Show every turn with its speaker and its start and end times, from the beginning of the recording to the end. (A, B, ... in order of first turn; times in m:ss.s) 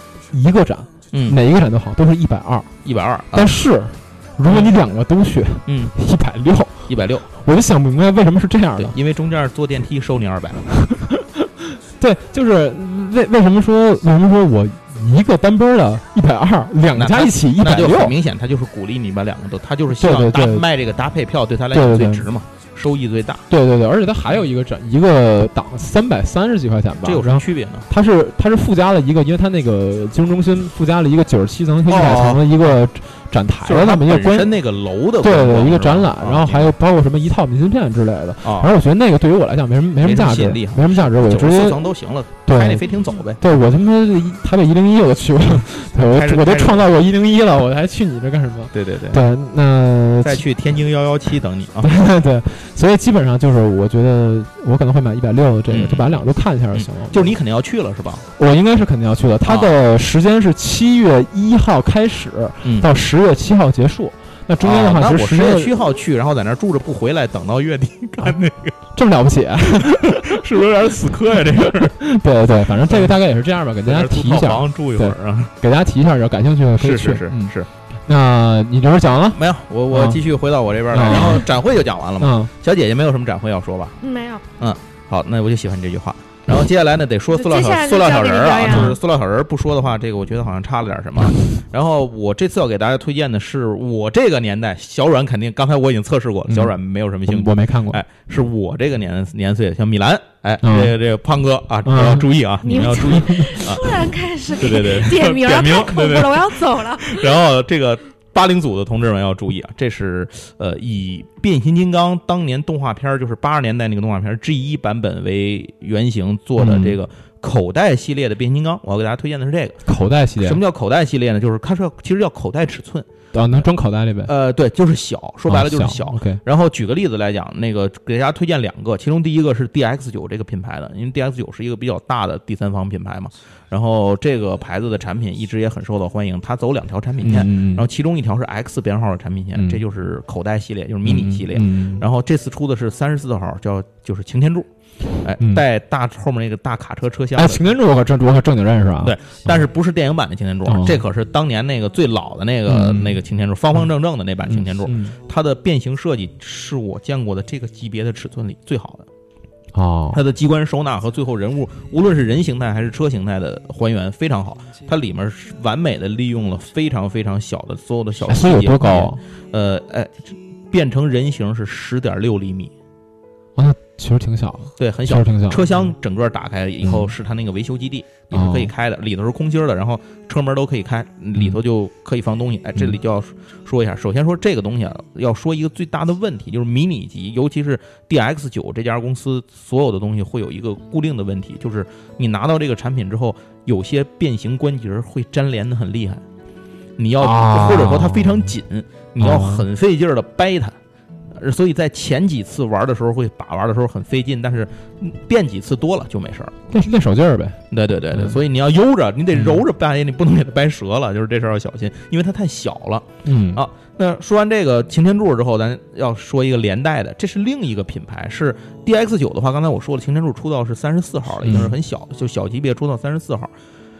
0:00.3-0:02.7 A
0:01.1-0:01.4 B
0:02.8-0:03.5 B
0:03.3-0:09.0 A
0:04.5-0:04.7 B
0:05.7-0:05.9 B
0:06.9-0:07.3 B
0:08.8-0:10.8 B
0:10.8-0:18.1 A
0:16.9-0:23.4 B
0:19.9-0:20.6 A
0:21.7-0:22.2 A
0:23.5-0:34.6 A
0:27.0-0:27.9 B
0:31.9-0:32.4 B
0:33.6-0:36.7 B
0:35.2-0:41.9 A
0:38.4-0:38.7 B
0:40.0-0:43.4 B
0:42.5-0:42.9 A
0:43.4-0:50.4 A
0:46.0-0:46.9 B
0:48.7-0:49.2 B
0:50.2-0:51.9 B
0:51.8-0:57.3 A
0:55.7-0:58.2 B
0:58.4-1:05.8 A
0:59.4-0:59.8 B
1:02.6-1:02.9 B
1:04.6-1:08.8 B
1:08.9-1:10.4 A
1:09.6-1:12.0 B
1:11.6-1:17.5 A
1:12.7-1:13.2 B
1:13.8-1:15.5 B
1:16.8-1:17.7 B
1:18.1-1:20.2 A
1:19.3-1:24.0 B
1:20.9-1:21.5 A
1:22.2-1:22.5 A
1:24.0-1:24.4 C
1:24.6-1:44.0 B
1:27.3-1:29.0 C
1:28.6-1:28.9 A
1:36.5-1:36.7 A
1:37.3-1:38.0 A
1:40.6-1:41.0 A
1:41.8-1:43.6 A
1:42.6-1:47.3 C
1:44.6-1:59.8 B
1:56.6-1:57.0 A
1:59.8-2:00.6 A
2:00.4-2:03.7 B
2:03.3-2:04.3 A
2:04.2-2:24.7 B
2:05.5-2:06.4 A
2:17.2-2:17.8 A
2:19.5-2:19.8 A
2:21.0-2:22.0 A
2:25.2-2:27.7 B
2:27.3-2:29.6 A
2:29.0-2:39.1 B
2:30.6-2:31.0 A
2:32.6-2:33.2 A
2:34.5-2:35.2 A
2:39.7-2:40.2 A
2:40.1-2:52.7 B
2:48.3-2:49.2 A
2:53.6-2:55.8 A
2:54.8-3:16.2 B
2:56.8-2:57.1 A
2:58.3-2:58.7 A
3:17.0-3:20.7 B
3:17.2-3:18.5 A
3:19.2-3:19.7 A
3:21.4-3:26.6 B
3:26.7-3:28.4 A
3:27.7-3:43.5 B
3:29.3-3:29.6 A
3:33.2-3:33.6 A
3:41.4-3:41.7 A